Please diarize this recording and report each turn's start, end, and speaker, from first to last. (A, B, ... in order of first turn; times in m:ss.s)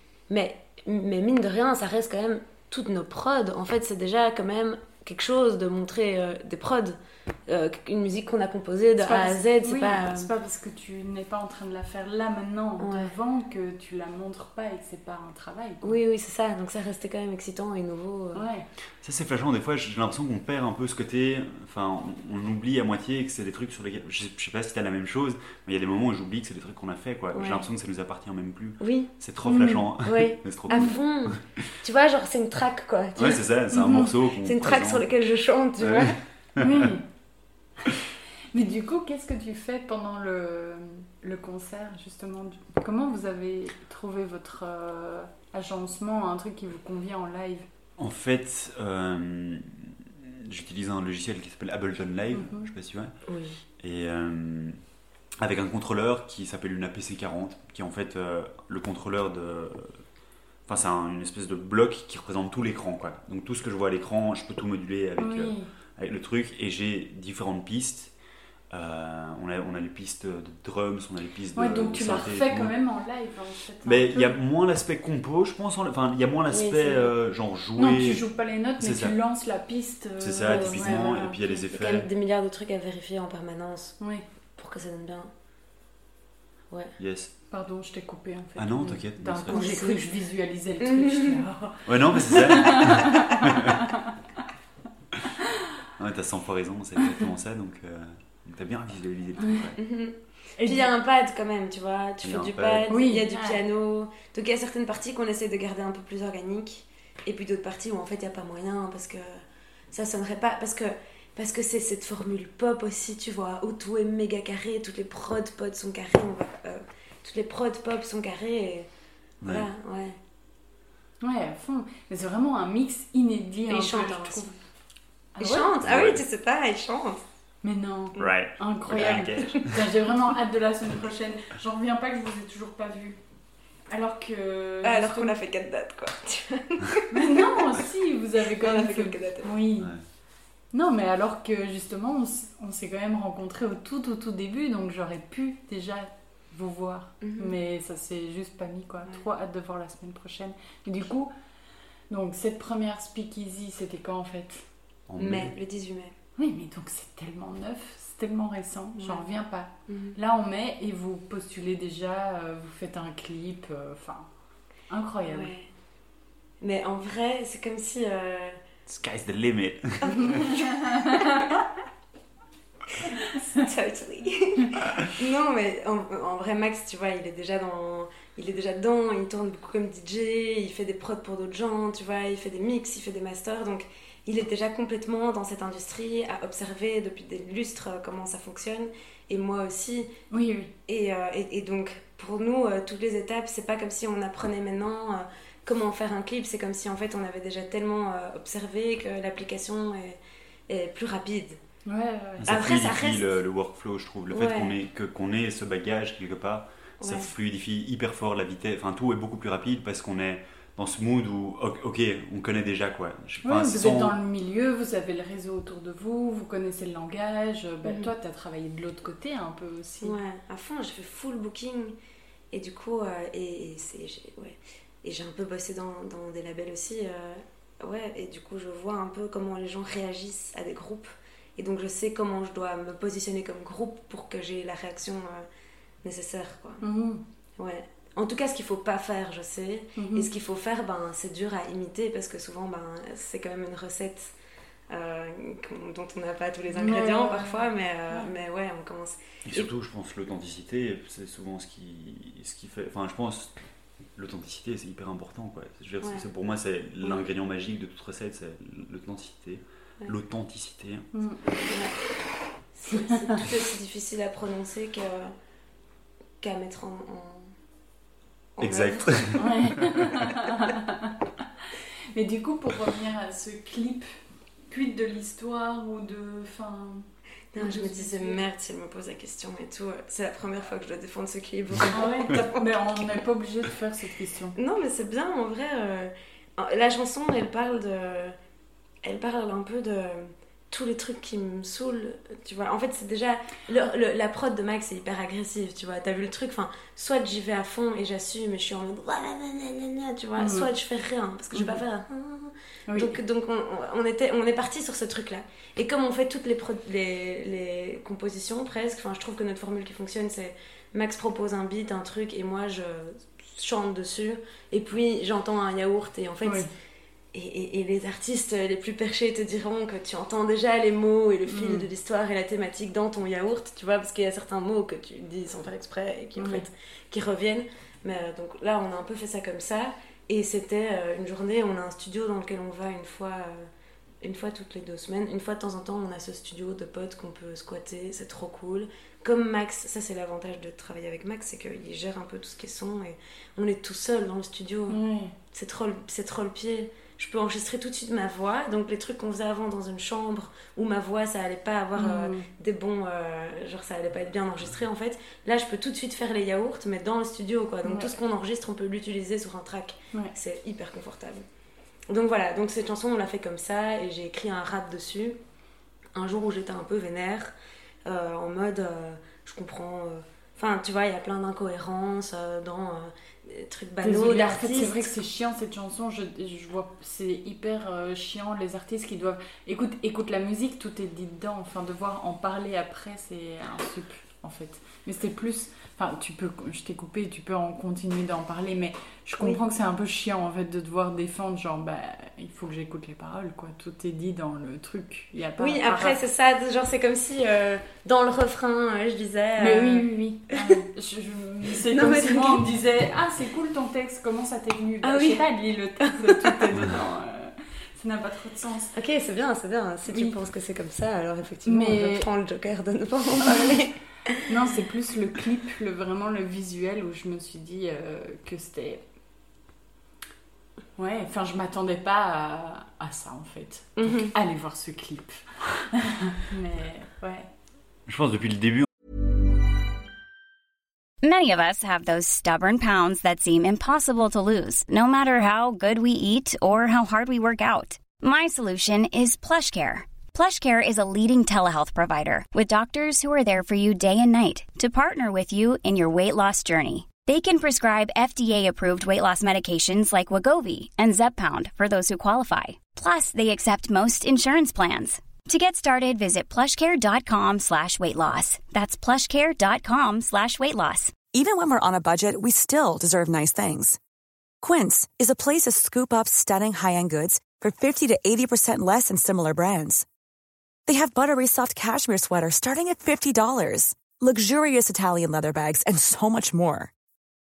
0:00.3-0:10.3 A
0:09.0-0:15.8 B
0:12.8-0:13.1 A
0:15.8-0:18.4 A
0:18.3-0:18.6 B
0:19.0-0:31.4 C
0:27.3-0:27.6 A
0:28.8-0:29.1 A
0:29.4-0:29.9 B
0:30.0-0:33.4 A
0:33.2-0:35.0 C
0:33.7-0:34.1 B
0:34.4-0:36.2 A
0:35.8-0:36.9 C
0:36.6-0:37.0 B
0:38.5-0:47.6 B
0:48.0-0:53.1 C
0:52.3-0:52.7 B
0:53.3-0:53.6 A
0:53.8-0:54.8 C
0:55.4-0:59.9 C
1:00.7-1:08.1 C
1:05.2-1:05.7 B
1:08.7-1:12.7 C
1:11.6-1:14.4 B
1:13.8-1:18.2 C
1:16.5-1:17.1 A
1:17.8-1:21.4 B
1:18.8-1:19.2 C
1:20.2-1:22.1 C
1:20.5-1:21.2 A
1:21.7-1:24.0 A
1:24.6-1:25.3 A
1:27.0-1:27.3 C
1:27.5-1:34.1 B
1:28.6-1:29.6 C
1:29.5-1:30.0 A
1:30.8-1:31.4 A
1:31.8-1:33.8 C
1:36.0-1:39.8 C
1:39.8-1:58.9 A
1:40.6-1:40.9 B
1:42.2-1:42.9 C
1:42.9-1:43.6 B
1:59.4-1:59.7 C
1:59.4-2:00.2 A
2:01.2-2:04.6 B
2:03.7-2:04.4 A
2:05.4-2:05.7 B
2:05.4-2:07.2 A
2:05.8-2:06.2 C
2:07.6-2:13.2 B
2:08.2-2:09.6 C
2:08.9-2:09.7 A
2:13.9-2:15.4 B
2:14.8-2:17.4 A
2:17.1-2:19.9 B
2:18.6-2:19.5 A
2:19.8-2:20.0 C
2:20.7-2:31.3 B
2:27.2-2:27.6 A
2:32.1-2:34.6 B
2:35.1-2:35.5 C
2:35.2-2:36.1 A
2:36.4-2:44.3 B
2:39.0-2:39.2 A
2:39.9-2:40.2 A
2:44.9-2:45.5 B
2:45.2-2:45.7 A
2:46.6-2:48.6 A
2:48.9-2:50.5 C
2:50.0-2:51.6 A
2:50.2-2:51.6 B
2:53.3-3:10.1 A
3:10.3-3:10.7 B
3:10.9-3:21.6 A
3:21.9-3:22.5 B
3:22.4-3:34.1 C
3:22.5-3:23.4 A
3:24.3-3:24.8 A
3:27.0-3:27.3 A
3:33.4-3:40.2 B
3:37.8-3:38.1 A
3:40.0-3:41.9 A
3:42.5-3:55.5 A
3:56.0-3:56.8 A
3:56.8-3:57.2 B
3:57.6-4:04.3 A
4:00.0-4:00.3 B
4:04.9-4:09.7 A
4:06.7-4:08.3 B
4:09.5-4:13.5 C
4:14.2-4:21.1 C
4:16.0-4:16.3 A
4:21.1-4:21.4 B
4:21.7-4:22.0 A
4:22.7-4:25.3 A
4:23.1-4:23.4 B
4:26.4-4:27.5 A
4:28.6-4:29.5 A
4:28.6-4:29.4 C
4:29.4-4:31.1 B
4:32.1-4:34.0 B
4:34.7-4:37.0 B
4:37.5-4:43.0 A
4:37.6-4:38.4 B
4:41.9-4:44.6 B
4:44.6-4:48.4 A
4:49.0-5:16.7 A
5:00.4-5:00.7 B
5:01.5-5:01.8 B
5:02.9-5:03.1 B
5:17.3-5:33.7 A
5:21.5-5:21.9 B
5:26.4-5:26.6 B
5:34.2-5:45.0 A
5:44.9-5:45.3 B
5:45.5-6:01.4 A
5:52.0-5:52.5 B
5:57.8-5:58.1 B
6:02.1-6:05.4 A
6:06.1-6:07.5 A
6:08.0-6:15.1 A
6:14.0-6:36.2 B
6:35.6-6:40.7 A
6:39.6-6:49.0 B
6:41.9-6:42.6 A
6:45.0-6:45.4 A
6:46.0-6:46.6 A
6:48.9-6:54.4 A
6:50.1-6:50.3 B
6:51.7-6:52.3 B
6:54.5-6:59.0 B
7:01.0-7:07.5 B
7:04.0-7:04.3 A
7:08.1-7:08.9 C
7:11.2-7:41.2 D
7:41.3-7:44.0 E
7:44.6-7:50.0 E
7:50.9-7:56.9 E